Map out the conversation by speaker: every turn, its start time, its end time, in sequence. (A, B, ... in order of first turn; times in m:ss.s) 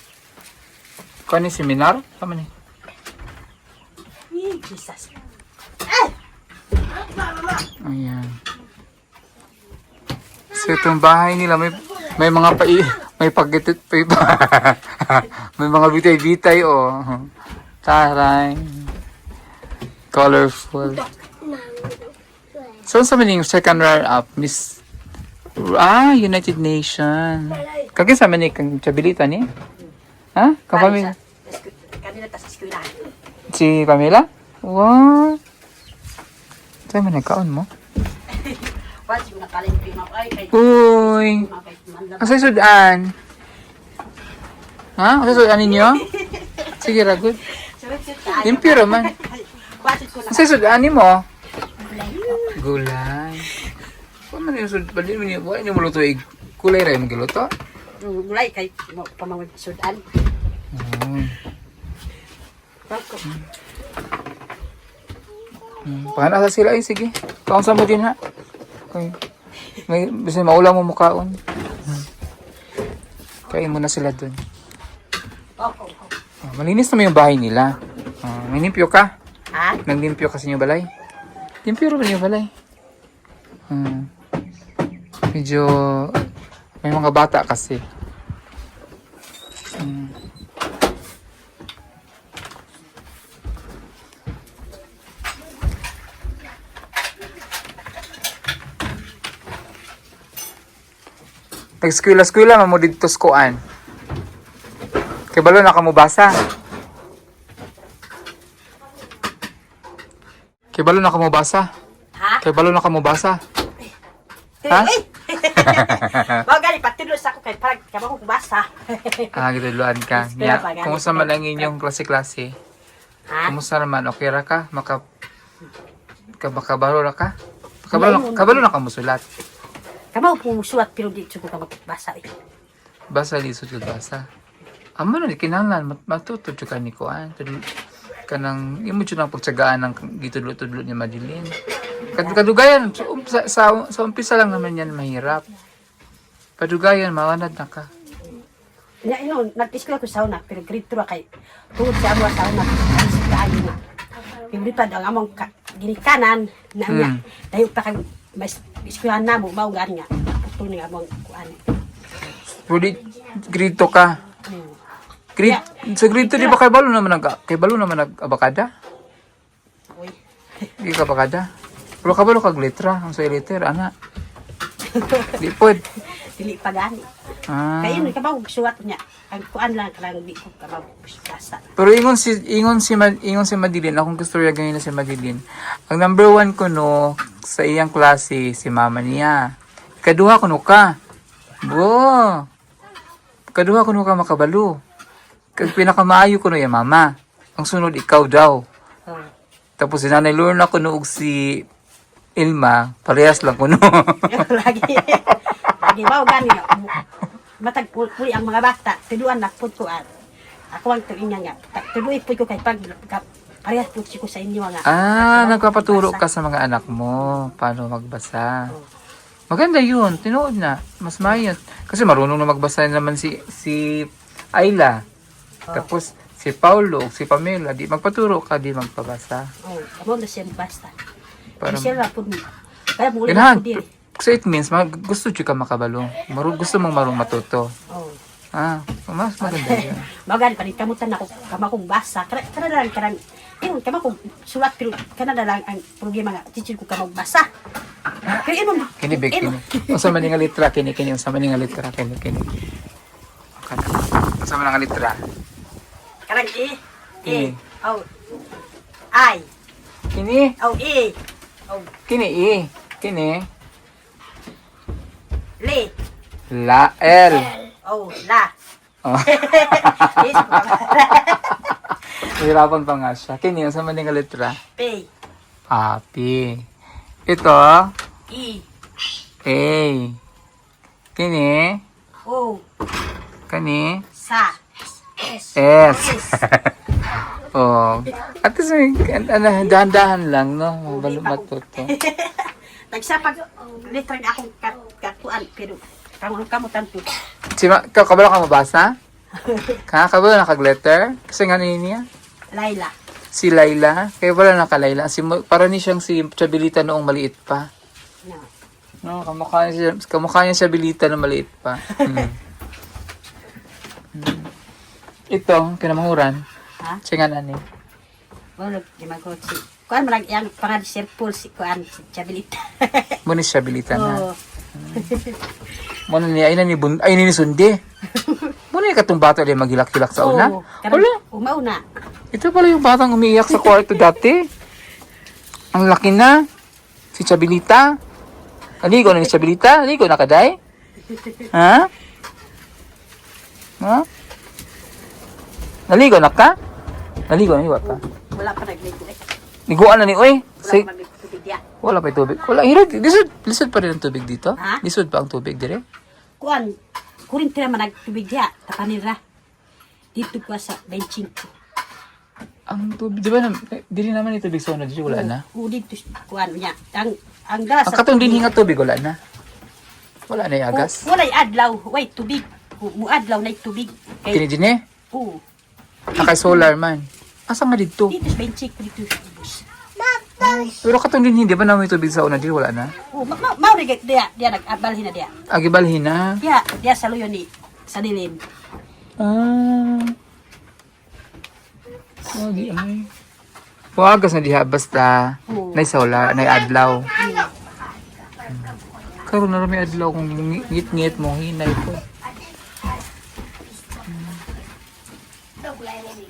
0:01.3-0:02.5 A
0:04.3-0:05.1 B
0:07.8-0:08.4 A
0:10.5-0:17.3 A
0:17.8-0:18.9 A
0:20.1-0:21.0 A
0:22.8-0:24.8 A
0:25.6-0:29.4 A
0:30.4-0:31.1 A
0:30.7-0:33.0 B
0:33.5-0:35.4 A
0:36.9-0:37.7 A
0:38.3-0:42.5 B
0:40.5-0:41.4 A
0:42.2-0:43.1 A
0:45.0-0:46.0 A
0:45.4-0:46.9 B
0:46.8-0:47.4 A
0:47.5-0:50.6 B
0:48.4-0:49.1 A
0:50.3-0:51.2 A
0:51.8-0:52.5 B
0:52.5-0:53.5 A
0:54.3-0:57.5 A
0:58.0-1:00.0 B
1:00.7-1:01.3 A
1:02.9-1:03.2 B
1:05.8-1:08.2 A
1:09.9-1:12.0 A
1:13.5-1:14.4 A
1:15.6-1:16.1 B
1:16.4-1:19.1 A
1:19.5-1:19.8 B
1:19.8-1:20.9 A
1:21.6-1:22.5 A
1:23.7-1:24.1 A
1:25.3-1:26.2 A
1:26.8-1:27.8 A
1:29.8-1:30.1 A
1:41.8-1:43.6 A
1:45.3-1:46.3 A
1:50.7-1:51.7 A
1:52.4-1:53.4 A
1:54.6-1:59.3 B
1:55.6-1:56.2 A
1:59.3-2:02.5 A
2:00.1-2:01.7 B
2:03.3-2:03.6 B
2:03.5-2:05.0 A
2:06.4-2:07.3 A
2:07.8-2:09.2 A
2:07.9-2:08.6 B
2:10.1-2:12.3 B
2:13.1-2:14.2 A
2:15.0-2:17.6 A
2:18.3-2:21.5 A
2:22.1-2:25.4 A
2:26.6-2:27.9 A
2:29.0-2:31.2 B
2:31.8-2:33.8 B
2:34.5-2:41.6 B
2:36.9-2:37.1 A
2:42.7-2:44.2 A
2:44.5-2:44.7 B
2:45.4-2:48.7 A
2:46.2-2:46.6 B
2:49.9-2:50.7 B
2:50.8-2:51.5 A
2:52.0-2:53.9 A
2:54.9-2:55.4 B
2:55.4-2:55.8 A
2:56.0-2:57.1 B
2:57.5-2:58.1 A
2:57.8-3:01.6 B
3:01.8-3:09.4 A
3:10.0-3:10.9 A
3:11.6-3:12.4 A
3:13.5-3:14.7 A
3:15.6-3:18.6 A
3:19.8-3:21.6 A
3:22.4-3:24.4 A
3:24.3-3:26.9 B
3:27.6-3:30.1 B
3:30.7-3:36.2 B
3:34.9-3:38.6 A
3:39.5-3:45.0 A
3:45.7-3:49.5 A
3:49.6-3:50.9 B
3:51.6-3:52.0 A
3:51.6-3:52.4 B
3:53.0-3:53.9 B
3:53.3-3:57.7 A
3:57.9-3:58.2 B
3:58.5-4:00.0 A
3:59.4-4:07.5 B
4:08.3-4:10.3 B
4:09.0-4:12.4 A
4:13.6-4:15.2 A
4:16.3-4:18.0 B
4:17.3-4:17.5 A
4:19.1-4:19.5 B
4:20.1-4:20.5 A
4:20.6-4:21.2 B
4:22.1-4:23.4 A
4:25.6-4:25.9 B
4:26.5-4:27.5 A
4:27.8-4:28.5 B
4:29.0-4:30.9 A
4:29.2-4:31.5 B
4:31.9-4:34.6 A
4:34.8-4:35.1 B
4:35.7-4:36.6 A
4:37.3-4:37.9 A
4:38.3-4:38.6 B
4:39.4-4:40.2 A
4:41.2-4:41.8 A
4:42.2-4:42.6 B
4:43.5-4:44.0 A
4:44.2-4:44.6 B
4:45.2-4:46.4 B
4:45.6-4:46.7 A
4:47.5-4:51.9 A
4:50.9-4:57.1 B
4:57.6-4:58.9 A
4:59.4-4:59.8 B
4:59.9-5:02.0 A
5:02.5-5:02.9 B
5:03.3-5:07.7 A
5:09.0-5:12.4 A
5:11.9-5:12.3 B
5:14.1-5:14.5 A
5:15.3-5:16.4 A
5:17.0-5:17.6 A
5:18.6-5:23.2 B
5:23.2-5:24.2 A
5:23.9-5:24.4 B
5:24.8-5:25.1 A
5:24.9-5:25.4 B
5:26.1-5:27.8 A
5:28.1-5:28.5 B
5:28.7-5:31.1 A
5:30.2-5:31.8 B
5:32.3-5:34.4 A
5:35.7-5:36.4 A
5:37.1-5:37.9 A
5:38.8-5:40.6 A
5:41.0-5:41.5 B
5:41.5-5:41.9 A
5:43.8-5:44.0 A
5:45.9-5:46.5 A
5:47.3-5:48.0 A
5:47.8-5:49.2 B
5:49.7-5:50.8 A
5:50.6-5:51.6 B
5:51.8-5:55.8 A
5:56.4-5:56.7 B
5:57.3-5:59.2 B
6:00.1-6:01.4 B
6:02.7-6:05.4 A
6:05.1-6:08.5 B
6:07.9-6:09.2 A
6:10.3-6:11.0 A
6:10.7-6:14.4 B
6:14.3-6:14.8 A
6:15.1-6:15.4 B
6:16.1-6:18.2 A
6:16.2-6:16.6 B
6:18.1-6:19.6 B
6:20.4-6:22.9 A
6:23.1-6:25.3 B
6:25.5-6:26.3 A
6:26.4-6:28.4 B
6:29.2-6:30.1 A
6:32.3-6:33.1 A
6:34.0-6:37.1 A
6:35.5-6:35.8 B
6:37.2-6:37.5 B
6:39.2-6:42.0 A
6:44.1-6:44.4 A